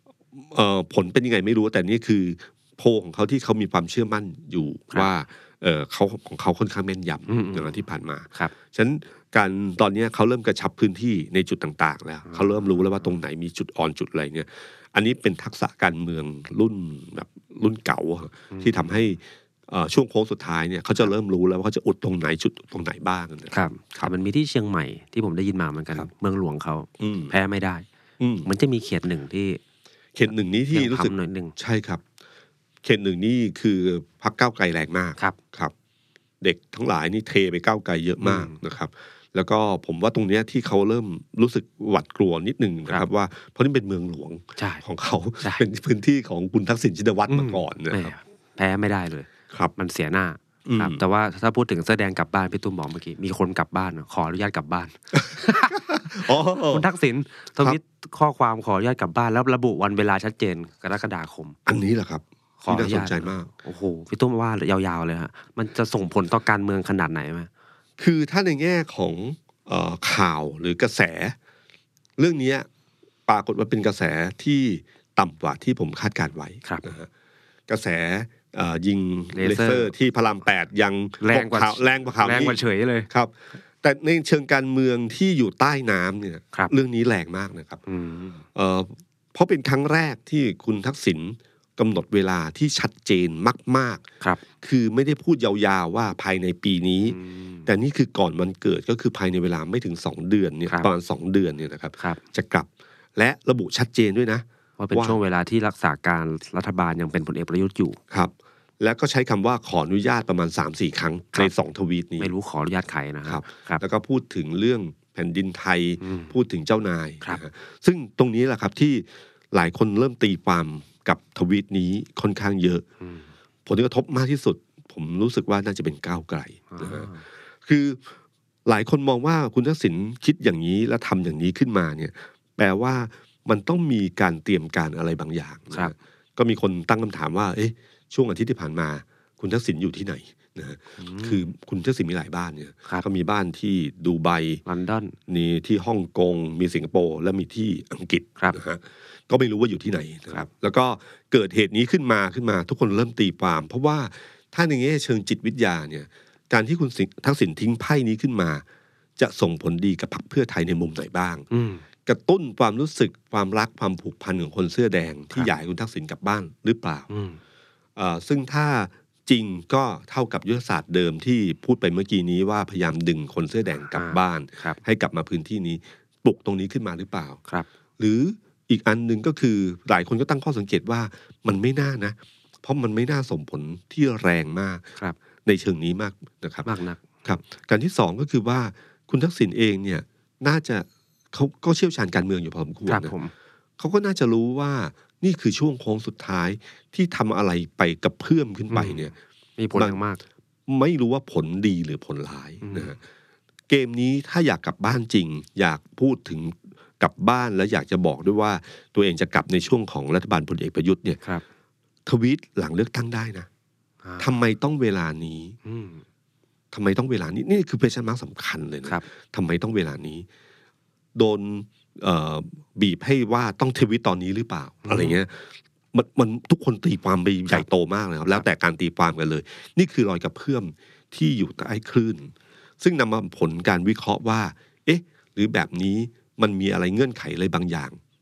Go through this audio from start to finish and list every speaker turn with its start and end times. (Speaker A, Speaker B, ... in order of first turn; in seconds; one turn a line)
Speaker A: 0.3-24.1
Speaker B: 7.3-7.7
Speaker B: 12.3-12.8
Speaker B: 18.5-18.9
Speaker B: 23.5-27.8
Speaker A: 27.0-27.3
Speaker A: 28.2-28.5
Speaker B: 28.4-29.6
Speaker A: 30.1-32.0
Speaker B: 30.7-31.6
Speaker A: 32.8-35.7
Speaker A: 36.4-48.1
Speaker B: 38.2-38.5
Speaker B: 44.6-44.8
Speaker B: 47.3-61.5
Speaker A: 50.6-51.0
Speaker A: 55.2-56.9
Speaker A: 61.6-63.5
Speaker B: 62.6-67.5
Speaker A: 68.0-71.3
Speaker A: 72.2-72.7
Speaker A: 73.3-77.1
Speaker A: 77.7-87.8
Speaker B: 79.3-79.9
Speaker B: 81.2-83.1
Speaker B: 87.9-88.4
Speaker A: 88.5-94.0
Speaker A: 94.6-105.2
Speaker B: 97.1-97.7
Speaker B: 104.8-108.0
Speaker A: 108.1-112.3
Speaker B: 112.2-113.8
Speaker A: 113.3-122.8
Speaker B: 116.0-116.3
Speaker B: 123.0-123.3
Speaker A: 123.7-127.1
Speaker B: 126.7-127.2
Speaker A: 127.6-128.1
Speaker A: 128.7-144.6
Speaker B: 141.0-141.4
Speaker B: 144.7-145.2
Speaker A: 145.3-158.6
Speaker A: 159.2-161.5
Speaker B: 161.5-161.8
Speaker A: 162.0-167.1
Speaker B: 167.1-167.4
Speaker A: 167.9-177.4
Speaker B: 173.9-174.8
Speaker A: 178.0-184.9
Speaker A: 185.4-186.7
Speaker B: 186.6-187.2
Speaker A: 187.2-193.1
Speaker B: 192.9-193.3
Speaker A: 193.8-199.1
Speaker B: 198.7-200.2
Speaker A: 199.7-200.0
Speaker A: 200.7-203.0
Speaker B: 202.6-202.9
Speaker A: 203.7-211.2
Speaker A: 212.1-213.5
Speaker B: 214.0-214.3
Speaker A: 214.2-215.6
Speaker B: 215.6-216.0
Speaker A: 216.7-220.3
Speaker A: 221.1-238.0
Speaker B: 224.8-225.2